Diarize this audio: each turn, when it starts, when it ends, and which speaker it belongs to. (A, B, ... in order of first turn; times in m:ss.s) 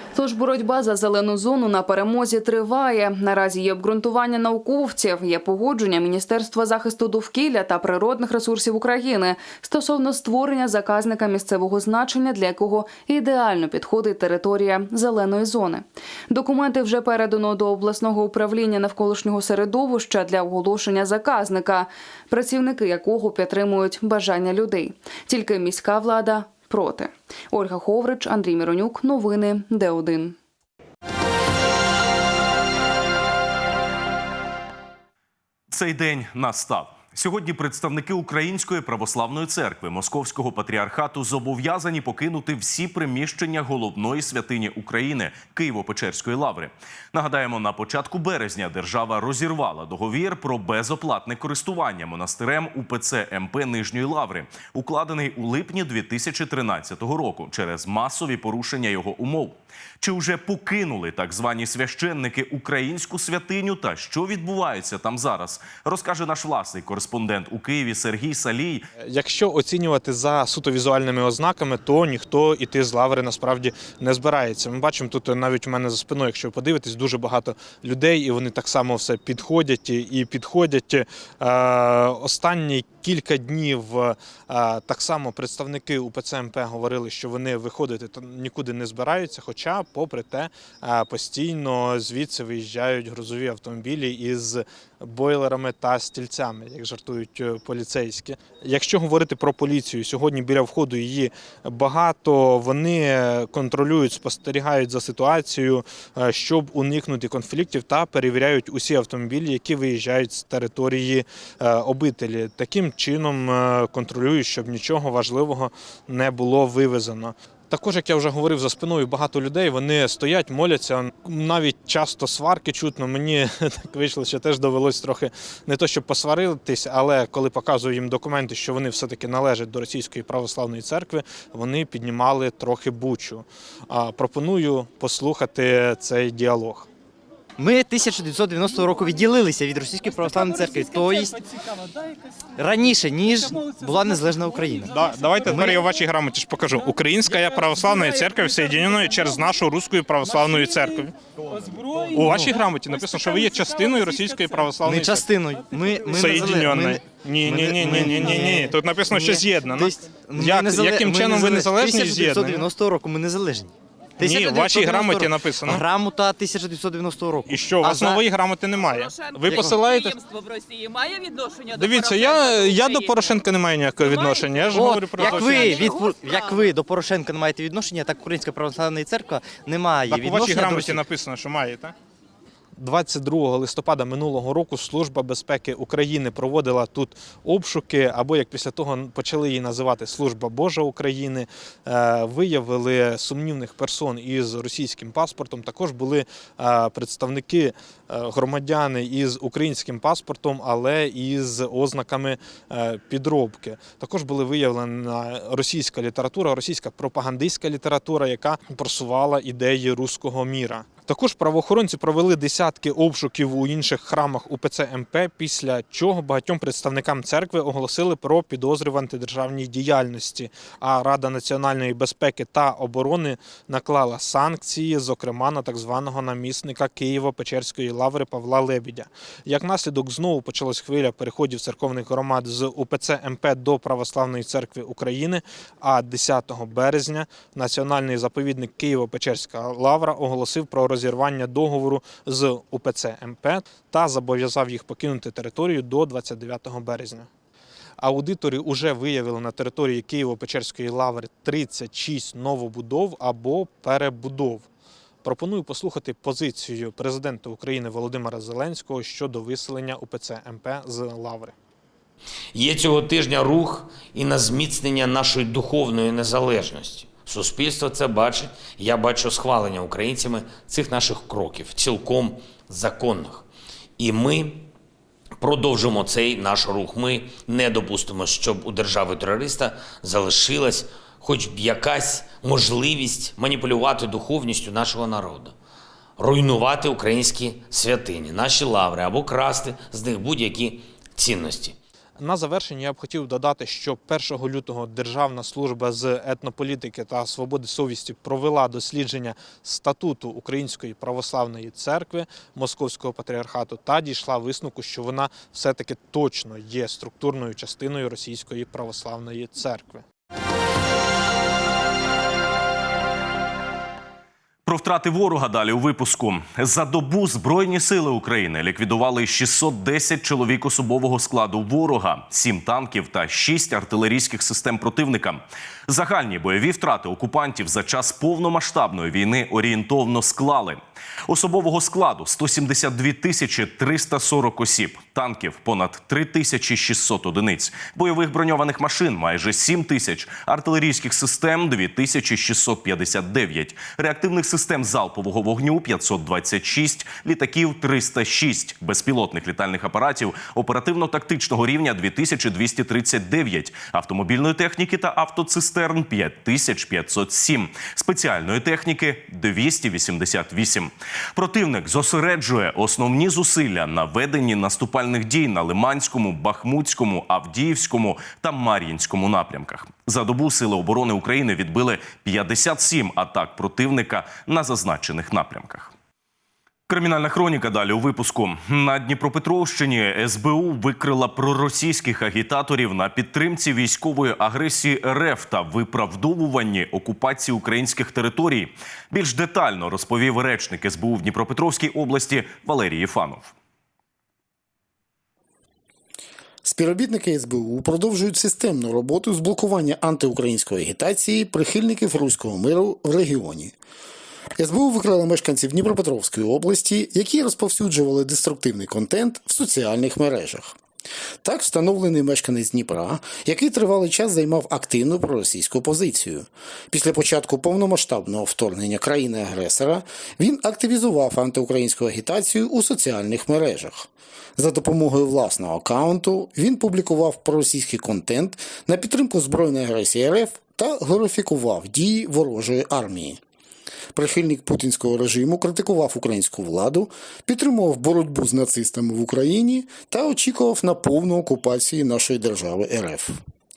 0:00.2-0:30.4 A
0:35.7-1:08.8 B
1:09.0-2:16.9 C
2:17.6-2:21.4 D
2:22.6-2:24.9 D
2:24.9-2:31.1 C
2:25.4-2:25.8 D
2:32.1-2:35.3 C
2:32.1-2:32.5 D
2:34.8-2:48.2 D
2:36.1-2:42.6 C
2:44.2-2:45.8 C
2:47.5-2:50.2 C
2:48.8-2:53.4 E
2:49.5-2:49.8 D
2:51.7-2:56.0 C
2:54.0-2:56.7 E
2:54.7-3:01.0 D
3:00.1-3:01.9 C
3:02.8-4:07.3 C
4:08.0-4:14.7 C
4:15.2-4:21.5 C
4:22.5-4:33.5 F
4:34.0-4:34.7 F
4:35.4-4:45.5 F
4:46.2-4:51.8 F
4:52.2-5:10.0 C
5:14.6-6:15.9 B
6:16.9-6:33.5 B
6:36.6-6:43.7 G
6:44.6-6:50.7 G
6:51.4-7:13.4 G
7:14.1-7:23.4 G